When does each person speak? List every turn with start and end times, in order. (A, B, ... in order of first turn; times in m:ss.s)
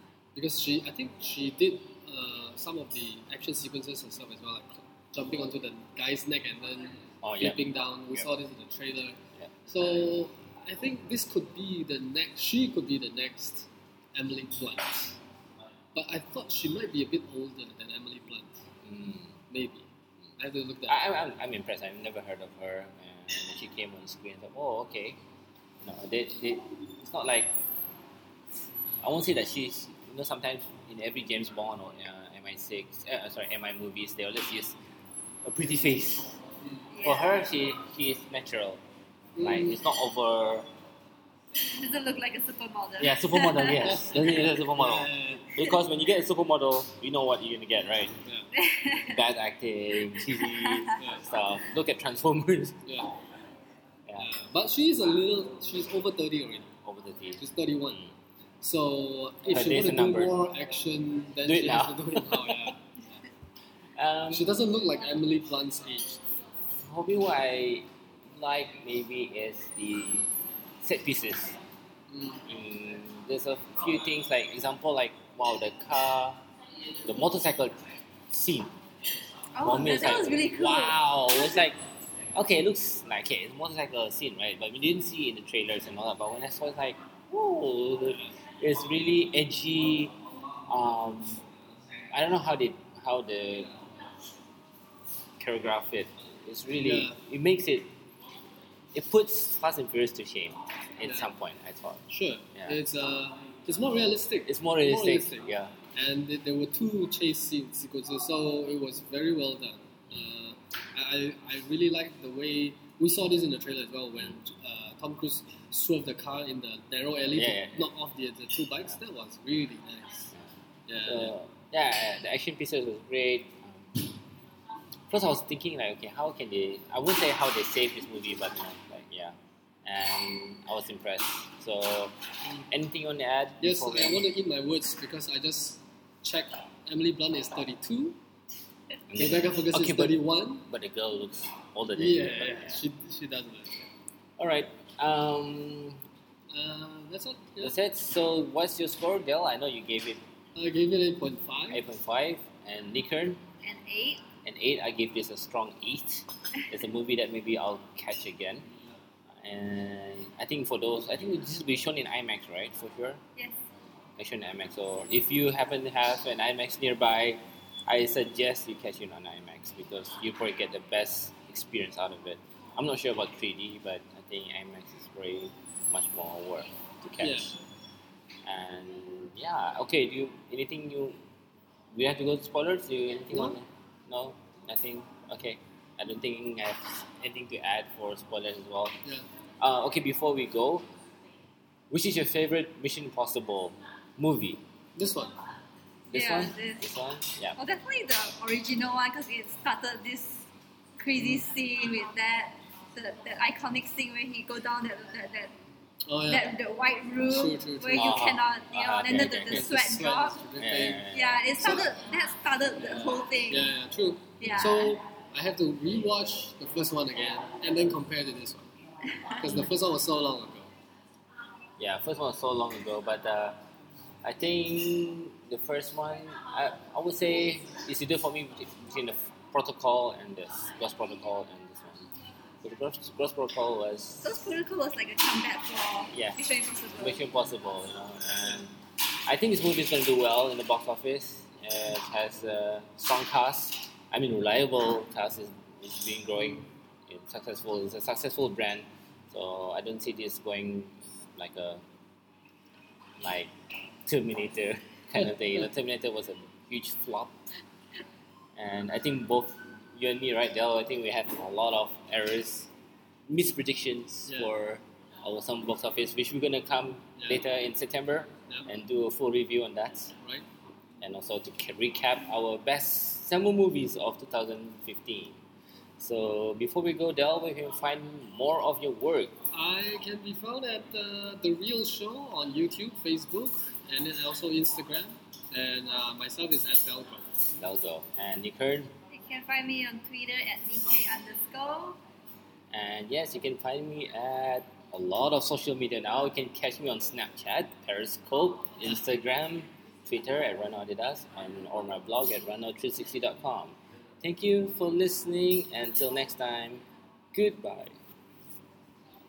0:00.3-0:15.2 A
0:07.2-0:08.2 B
0:15.9-0:18.6 A
0:18.8-0:19.4 B
0:19.5-0:21.0 A
0:20.9-0:25.2 B
0:25.8-0:27.6 B
0:29.0-0:34.8 B
0:35.4-0:36.4 B
0:36.9-0:37.5 C
0:37.0-0:38.8 B
0:39.4-0:39.8 A
0:39.4-0:40.7 B
0:41.7-0:44.0 C
0:43.0-0:48.2 B
0:43.9-0:45.4 A
0:48.5-0:49.2 C
0:49.0-0:52.9 B
0:50.1-0:51.0 C
0:51.0-0:51.2 A
0:52.8-0:53.1 A
0:54.2-0:56.7 A
0:56.8-0:58.1 B
0:57.4-0:58.0 A
0:58.6-1:03.1 A
0:59.5-1:00.3 B
1:01.4-1:02.7 B
1:04.0-1:04.5 B
1:04.3-1:06.2 A
1:06.8-1:11.6 B
1:12.1-1:12.4 A
1:12.4-1:16.4 B
1:17.0-1:18.7 B
1:19.5-1:21.6 C
1:19.6-1:21.8 B
1:22.3-1:31.4 B
1:32.1-1:33.7 B
1:35.4-1:37.9 B
1:36.7-1:37.2 A
1:38.9-1:42.8 B
1:41.0-1:41.3 A
1:42.1-2:00.3 A
1:44.4-1:45.7 B
1:57.3-1:57.9 B
2:00.3-2:04.0 B
2:00.9-2:01.4 A
2:05.1-2:12.2 B
2:12.7-2:14.2 B
2:13.6-2:18.2 A
2:19.1-2:22.8 B
2:19.1-2:20.6 A
2:22.0-2:23.8 A
2:24.4-2:26.0 B
2:26.5-2:27.7 A
2:27.6-2:30.2 B
2:30.5-2:31.8 A
2:31.7-2:33.4 B
2:33.6-2:34.2 C
2:34.4-2:38.6 B
2:39.4-2:43.2 B
2:44.2-2:57.5 B
2:57.2-2:57.5 A
2:58.4-3:01.2 B
3:01.9-3:09.0 B
3:03.3-3:03.6 A
3:09.6-3:10.8 B
3:11.9-3:14.6 B
3:15.0-3:15.3 A
3:16.1-3:17.6 B
3:16.1-3:16.9 C
3:17.6-3:20.5 C
3:21.0-3:25.5 C
3:21.2-3:21.4 A
3:26.0-3:26.6 A
3:26.3-3:30.5 C
3:27.2-3:28.3 A
3:27.9-3:29.8 B
3:29.0-3:32.0 A
3:30.6-3:31.7 B
3:31.1-3:33.7 C
3:32.8-3:38.7 A
3:34.4-3:35.0 C
3:34.4-3:34.7 B
3:39.1-3:39.7 C
3:39.4-3:40.7 A
3:41.8-3:43.6 B
3:44.2-3:52.1 B
3:52.6-3:54.5 B
3:54.2-3:57.2 C
3:56.1-3:56.4 B
3:57.0-4:11.8 B
4:13.2-4:13.5 B
4:14.0-4:17.3 B
4:18.6-4:22.7 B
4:23.3-4:30.1 B
4:24.3-4:24.5 A
4:30.2-4:30.4 A
4:31.0-4:35.4 B
4:36.0-4:39.3 B
4:39.5-4:47.4 A
4:47.6-4:48.9 B
4:49.1-4:52.0 C
4:52.7-5:06.8 B
5:07.3-5:08.0 B